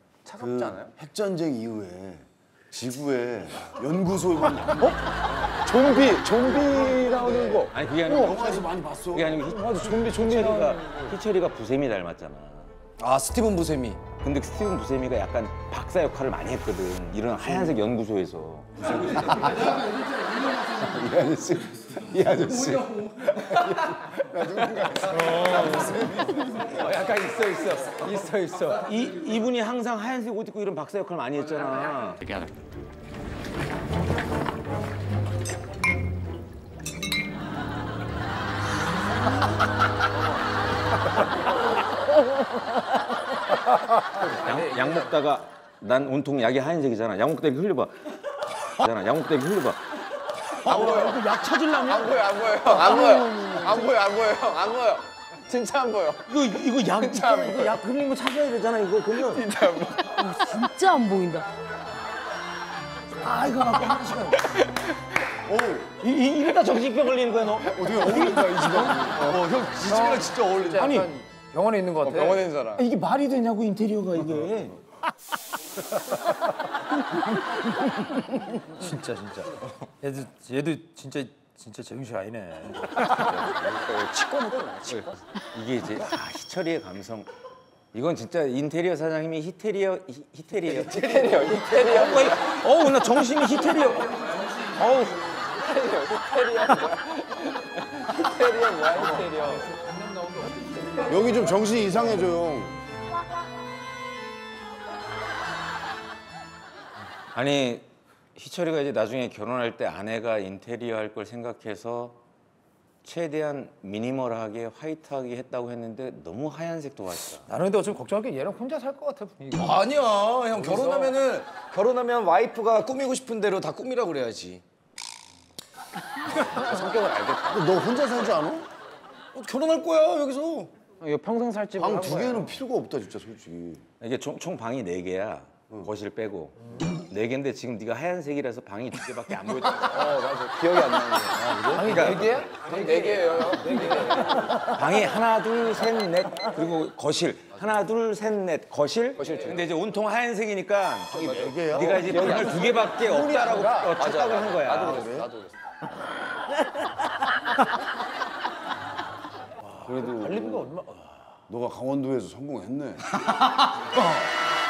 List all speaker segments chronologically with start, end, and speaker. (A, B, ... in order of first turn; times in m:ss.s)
0:00.2-0:00.9 A
0:00.4-0:05.6 B
0:05.6-0:07.7 A
0:06.5-0:09.4 B
0:07.7-0:12.7 C
0:09.6-0:11.1 A
0:13.0-0:14.0 D
0:14.2-0:19.0 C
0:18.8-0:19.8 E
0:19.2-0:26.7 B
0:22.3-0:23.4 D
0:23.6-0:24.1 E
0:25.1-0:25.9 A
0:25.1-0:28.8 E
0:28.7-0:32.4 C
0:44.1-0:45.0 E
0:44.2-0:49.8 C
0:50.6-0:51.2 C
0:50.7-0:51.2 A
0:50.7-0:52.9 E
0:52.0-0:56.2 A
0:52.8-0:53.9 F
0:56.2-0:59.4 C
0:57.0-0:57.6 A
0:59.3-1:00.2 A
1:00.2-1:01.5 F
1:03.2-1:04.7 C
1:05.5-1:05.8 D
1:05.8-1:08.6 C
1:07.8-1:09.2 A
1:07.8-1:11.0 D
1:08.1-1:09.2 B
1:08.7-1:09.3 E
1:09.8-1:12.5 E
1:10.8-1:11.1 C
1:12.0-1:12.8 A
1:12.7-1:14.8 C
1:18.3-1:23.4 E
1:23.2-1:23.5 C
1:23.2-1:25.0 A
1:25.5-1:27.3 C
1:27.9-1:34.2 C
1:30.7-1:32.3 A
1:34.2-1:34.6 E
1:34.7-1:35.2 C
1:35.6-1:37.4 A
1:37.9-1:39.7 A
1:38.9-1:41.1 E
1:41.0-1:42.8 B
1:47.3-1:52.2 C
1:53.0-1:57.4 C
1:57.4-1:59.8 E
1:59.5-2:04.6 D
2:00.5-2:01.1 E
2:06.4-2:07.7 A
2:07.5-2:08.7 B
2:09.3-2:10.7 D
2:11.0-2:12.5 A
2:11.7-2:13.8 B
2:14.0-2:20.2 C
2:19.8-2:24.3 A
2:21.4-2:22.1 B
2:21.6-2:22.8 E
2:21.8-2:22.3 C
2:22.9-2:23.4 D
2:23.5-2:24.5 E
2:24.7-2:35.1 C
2:29.2-2:29.6 A
2:31.1-2:32.6 B
2:31.1-2:32.9 A
2:32.2-2:34.0 E
2:34.0-2:35.6 A
2:39.6-2:41.4 E
2:39.8-2:40.7 B
2:41.5-2:43.0 B
2:44.0-2:44.3 B